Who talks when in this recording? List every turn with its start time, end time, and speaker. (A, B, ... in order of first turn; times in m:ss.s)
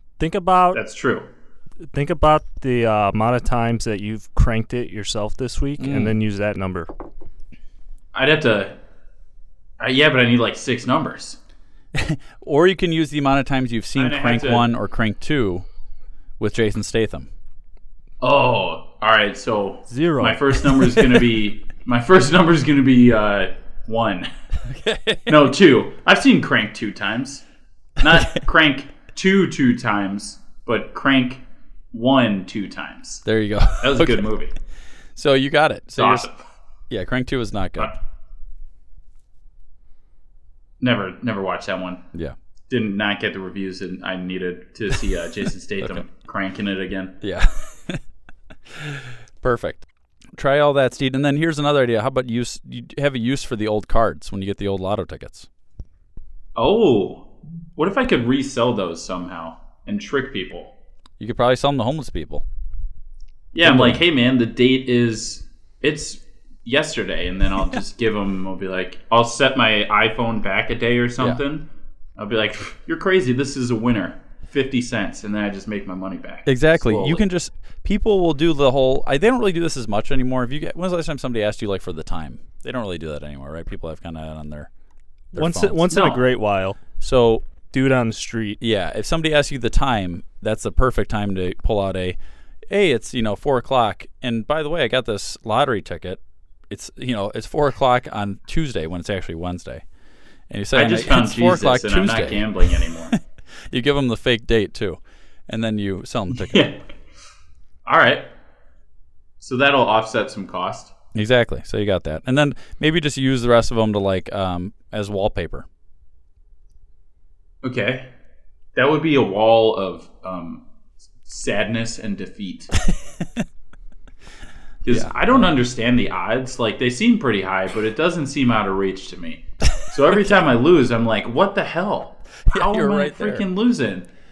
0:00.2-0:00.8 A
0:00.7-0:01.3 B
0:01.8-0:06.9 A
0:05.8-0:06.1 C
0:08.1-0:08.8 B
0:09.8-0:11.4 B
0:11.9-0:15.6 C
0:14.0-0:14.7 B
0:16.4-0:17.3 C
0:18.2-0:24.3 B
0:19.9-0:20.4 A
0:24.6-0:25.5 C
0:25.3-0:27.4 B
0:28.0-0:34.5 B
0:33.2-0:34.3 C
0:35.2-0:36.3 C
0:36.0-0:36.4 B
0:36.9-0:38.0 C
0:40.8-0:42.0 B
0:42.7-0:47.2 B
0:47.2-0:48.0 C
0:48.7-0:55.5 C
0:56.6-1:00.7 B
1:01.2-1:02.4 C
1:03.5-1:17.2 B
1:03.6-1:04.0 C
1:16.5-1:24.7 C
1:25.3-1:26.1 C
1:25.4-1:26.8 A
1:25.9-1:26.2 B
1:27.0-1:27.5 C
1:27.7-1:28.6 A
1:28.6-1:32.2 C
1:32.7-1:39.8 C
1:40.5-1:46.7 C
1:40.7-1:43.2 B
1:46.4-1:46.8 B
1:47.9-1:48.3 B
1:49.4-1:50.9 B
1:51.1-1:55.7 C
1:57.6-1:58.1 B
1:58.8-2:00.6 B
2:01.2-2:02.7 B
2:02.8-2:03.4 C
2:04.8-2:14.1 B
2:04.9-2:05.5 C
2:12.5-2:13.5 C